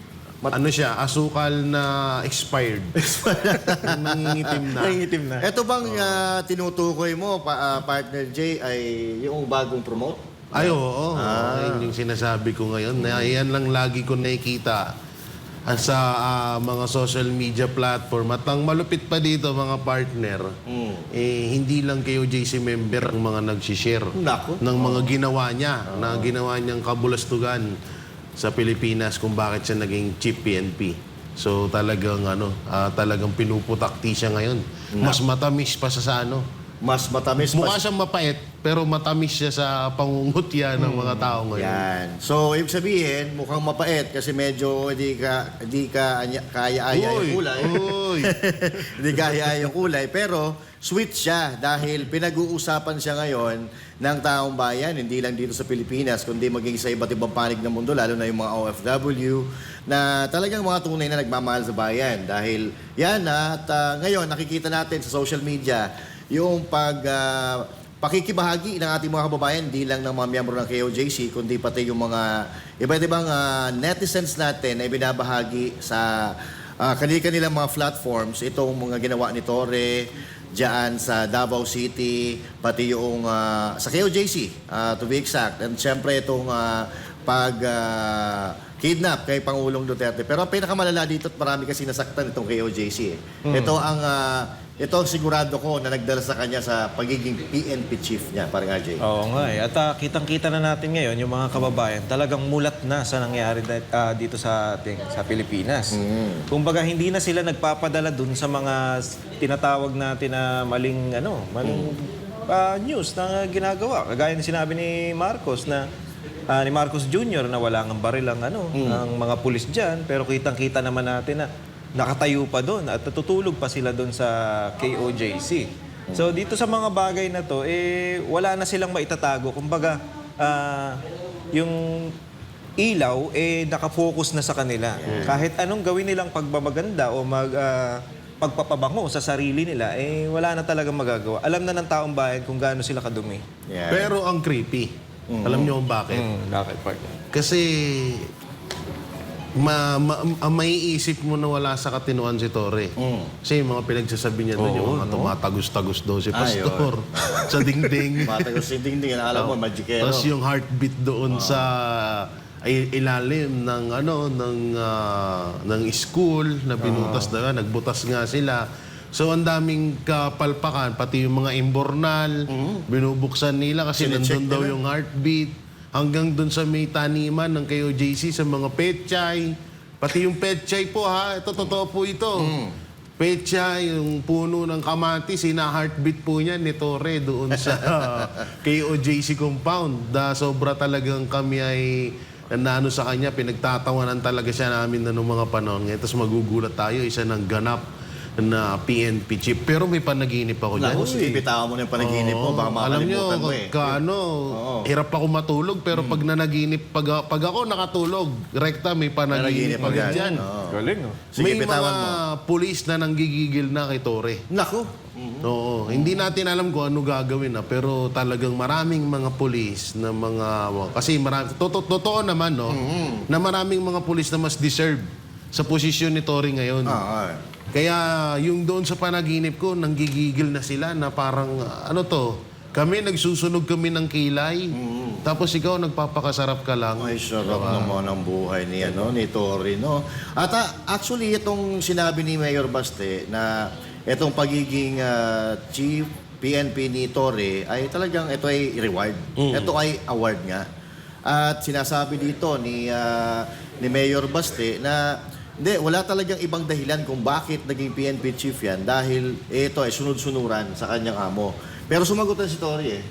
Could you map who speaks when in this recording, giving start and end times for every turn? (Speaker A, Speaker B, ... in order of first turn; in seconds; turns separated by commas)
Speaker A: 0.5-5.0, Speaker B: 3.0-4.8, Speaker C: 4.7-5.4, Speaker B: 5.4-11.9, Speaker A: 5.9-6.2, Speaker A: 10.6-14.9, Speaker B: 13.0-13.3, Speaker A: 15.7-20.6, Speaker B: 20.7-21.1, Speaker A: 21.1-27.7, Speaker B: 24.2-25.1, Speaker B: 25.9-26.3, Speaker A: 28.4-36.5, Speaker B: 34.9-35.2, Speaker B: 36.8-37.8, Speaker A: 37.5-41.9, Speaker C: 40.8-41.4, Speaker B: 41.5-99.6, Speaker A: 46.9-49.4, Speaker C: 93.5-93.8, Speaker C: 99.0-106.0, Speaker B: 105.9-106.5, Speaker C: 106.5-115.9, Speaker B: 111.6-111.9, Speaker C: 116.5-131.0, Speaker B: 118.8-119.0, Speaker C: 131.5-132.1, Speaker C: 132.8-143.4, Speaker B: 135.0-135.4, Speaker A: 135.1-135.5, Speaker B: 143.7-144.1, Speaker A: 143.9-144.9, Speaker B: 145.3-145.8, Speaker A: 145.4-146.3, Speaker C: 146.1-147.2, Speaker A: 147.3-148.3, Speaker A: 149.6-158.5, Speaker B: 153.0-153.3, Speaker C: 154.6-155.3, Speaker B: 156.3-157.5, Speaker B: 158.2-160.3, Speaker A: 159.3-182.5, Speaker B: 161.3-161.7, Speaker B: 166.8-167.2, Speaker C: 166.9-167.3, Speaker B: 172.5-172.8, Speaker B: 174.0-174.8, Speaker B: 182.4-182.8, Speaker A: 183.2-197.8, Speaker B: 187.6-188.4, Speaker A: 198.4-201.2, Speaker B: 200.7-204.0, Speaker C: 201.0-201.4, Speaker A: 202.0-204.3, Speaker B: 204.5-204.9, Speaker A: 204.8-210.4, Speaker B: 205.9-206.2, Speaker B: 209.3-210.8, Speaker C: 209.8-211.2, Speaker B: 211.3-212.2, Speaker A: 211.4-214.4, Speaker B: 214.5-216.2, Speaker A: 215.4-222.8, Speaker B: 222.7-223.3, Speaker A: 223.3-227.0, Speaker B: 226.9-227.4, Speaker A: 227.7-238.1, Speaker B: 234.7-235.2, Speaker B: 237.0-250.7, Speaker A: 249.4-249.8, Speaker B: 251.3-263.0